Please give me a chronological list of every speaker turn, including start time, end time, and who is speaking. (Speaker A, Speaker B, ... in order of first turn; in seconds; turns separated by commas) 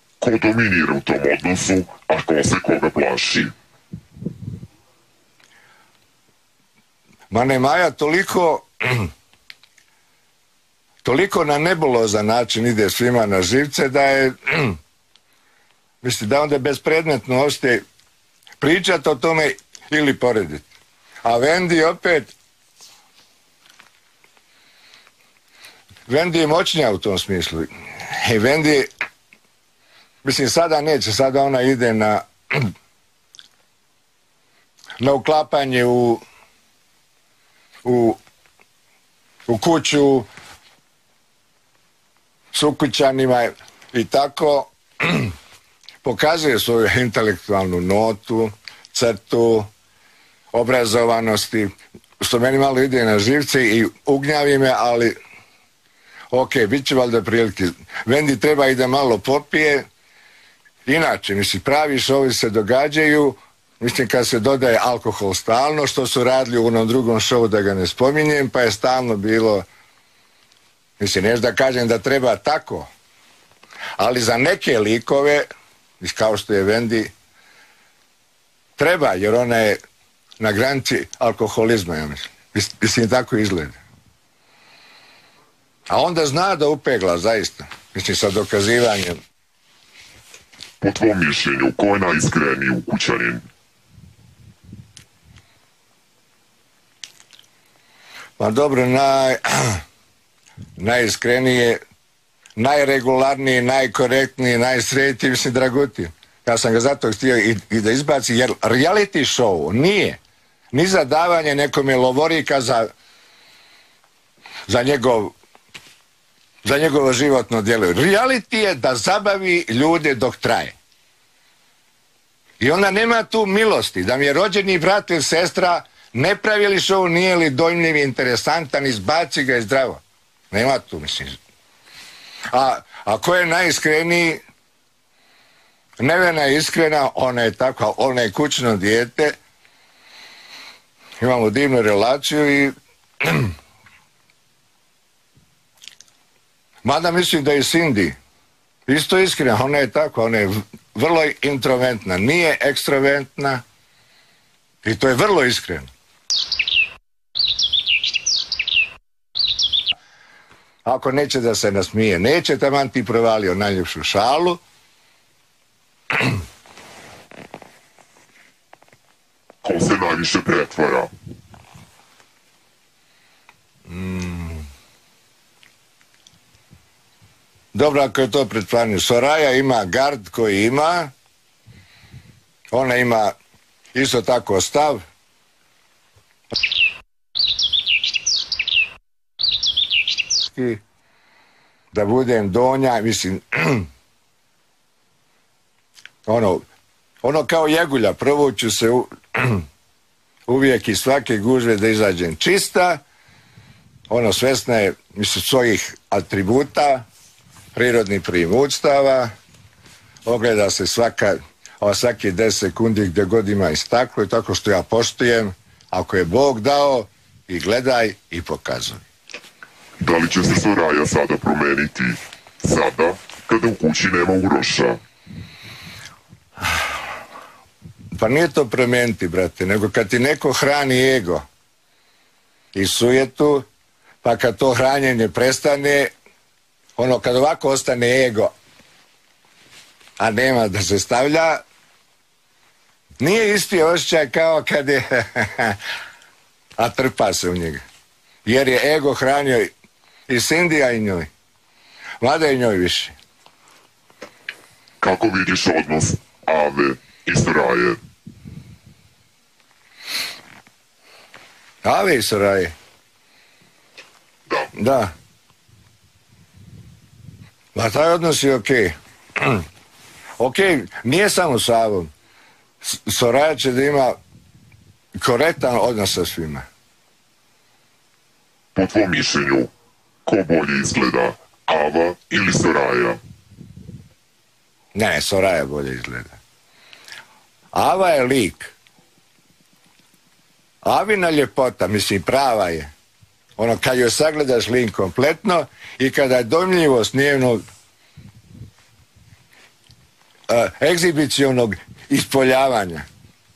Speaker A: 0.2-3.5, Speaker B: 7.3-9.1, Speaker B: 11.0-14.8, Speaker B: 16.0-17.8, Speaker B: 18.6-20.7, Speaker B: 21.2-22.3, Speaker B: 26.1-28.9, Speaker B: 30.2-32.7, Speaker B: 35.0-36.2, Speaker B: 37.8-38.2, Speaker B: 39.5-40.3, Speaker B: 42.5-45.3, Speaker B: 46.0-49.7, Speaker B: 50.5-55.1, Speaker B: 56.3-59.9, Speaker B: 60.9-69.7, Speaker B: 71.0-72.9, Speaker B: 74.0-75.5, Speaker B: 76.0-77.1, Speaker B: 78.8-79.8, Speaker B: 80.4-83.8, Speaker B: 85.9-89.2, Speaker A: 90.8-93.4, Speaker B: 98.4-99.8, Speaker B: 100.8-101.8, Speaker B: 102.6-110.2, Speaker B: 110.7-112.9, Speaker B: 114.7-115.3, Speaker B: 116.6-120.8, Speaker B: 122.6-131.4, Speaker B: 132.5-134.4, Speaker B: 136.0-139.4, Speaker B: 141.2-143.5, Speaker B: 146.8-148.2, Speaker B: 148.9-153.6, Speaker B: 154.8-155.9, Speaker B: 160.8-164.6, Speaker A: 169.6-171.1, Speaker B: 173.9-174.7, Speaker B: 177.7-181.1, Speaker B: 182.7-183.3, Speaker B: 183.9-185.0, Speaker B: 190.4-190.8, Speaker B: 191.9-193.9, Speaker B: 196.3-196.7, Speaker B: 197.2-199.7, Speaker B: 200.5-203.0, Speaker B: 204.1-207.1, Speaker B: 207.7-209.3, Speaker B: 210.3-219.0, Speaker A: 220.0-225.0, Speaker B: 228.1-231.5, Speaker B: 232.7-233.7, Speaker B: 234.2-236.1, Speaker B: 237.0-238.5, Speaker B: 240.2-241.6, Speaker B: 243.2-245.8, Speaker B: 246.8-247.8, Speaker B: 248.4-249.7, Speaker B: 250.3-251.3, Speaker B: 252.2-253.1, Speaker A: 255.0-258.0, Speaker B: 261.8-262.7, Speaker B: 264.7-265.1, Speaker B: 267.8-269.6, Speaker B: 270.4-272.1, Speaker B: 272.8-274.2, Speaker B: 275.2-276.7, Speaker A: 278.8-279.7, Speaker A: 280.3-283.2, Speaker B: 284.9-286.4, Speaker B: 287.7-288.7, Speaker B: 290.8-292.9, Speaker B: 293.6-297.6, Speaker B: 300.5-303.1